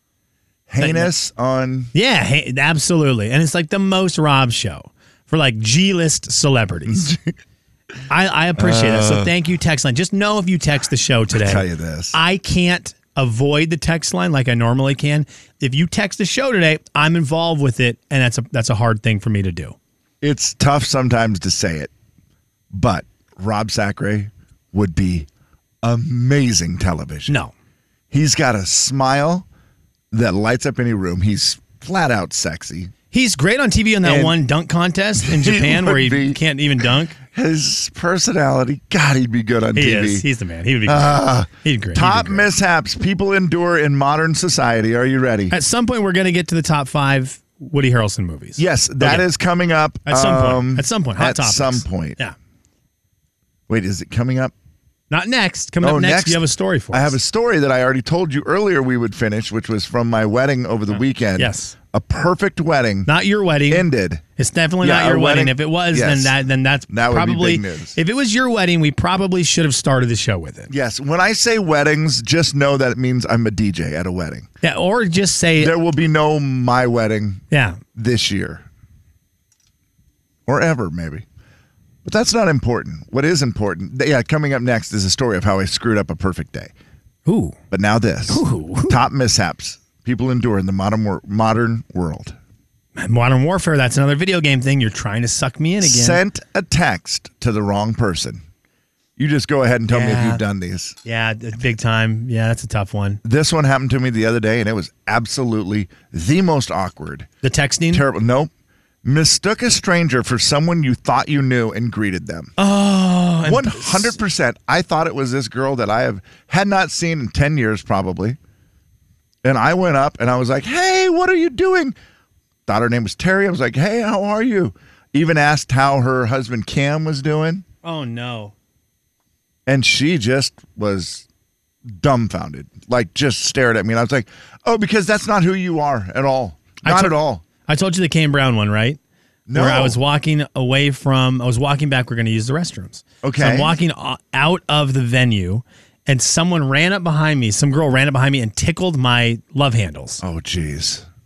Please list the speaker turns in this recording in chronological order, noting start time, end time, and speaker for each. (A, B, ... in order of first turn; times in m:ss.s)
0:00.7-0:01.9 A
0:00.8-0:01.1 B
0:01.9-0:07.1 B
0:06.9-0:07.3 A
0:08.1-0:19.8 B
0:08.6-0:09.3 A
0:11.3-0:12.2 A
0:20.2-0:21.9 A
0:22.7-0:25.3 A
0:25.8-0:27.3 A
0:28.1-0:29.4 A
0:30.1-0:32.9 A
0:33.1-0:37.2 B
0:34.0-0:34.4 A
0:35.2-0:36.4 A
0:37.3-0:40.3 A
0:39.7-0:42.5 B
0:40.8-0:45.5 A
0:45.5-0:49.3 B
0:48.6-0:52.2 A
0:50.0-0:52.3 B
0:53.7-0:54.5 A
0:55.1-0:57.1 B
0:55.8-0:56.4 A
0:56.9-1:03.1 A
1:01.4-1:01.7 B
1:03.0-1:10.7 B
1:03.7-1:04.2 A
1:04.8-1:06.3 A
1:06.9-1:08.0 A
1:10.7-1:14.5 A
1:14.6-1:15.7 B
1:15.6-1:17.4 A
1:17.5-1:17.8 B
1:17.9-1:18.6 A
1:20.4-1:21.2 A
1:22.0-1:26.7 A
1:27.2-1:27.6 B
1:27.7-1:32.4 A
1:28.3-1:29.0 B
1:33.0-1:36.2 B
1:35.8-1:38.4 A
1:39.2-1:41.0 A
1:39.9-1:40.4 B
1:41.0-1:43.2 B
1:43.2-1:47.3 A
1:47.4-1:48.0 B
1:47.9-1:48.5 A
1:49.0-1:52.5 A
1:52.6-1:54.2 B
1:53.4-1:58.4 A
1:59.4-2:02.0 A
2:02.7-2:07.6 A
2:07.8-2:08.5 B
2:09.7-2:11.2 A
2:11.9-2:17.4 A
2:16.8-2:19.0 B
2:19.5-2:20.0 A
2:19.5-2:30.2 B
2:23.2-2:23.7 A
2:30.2-2:31.0 A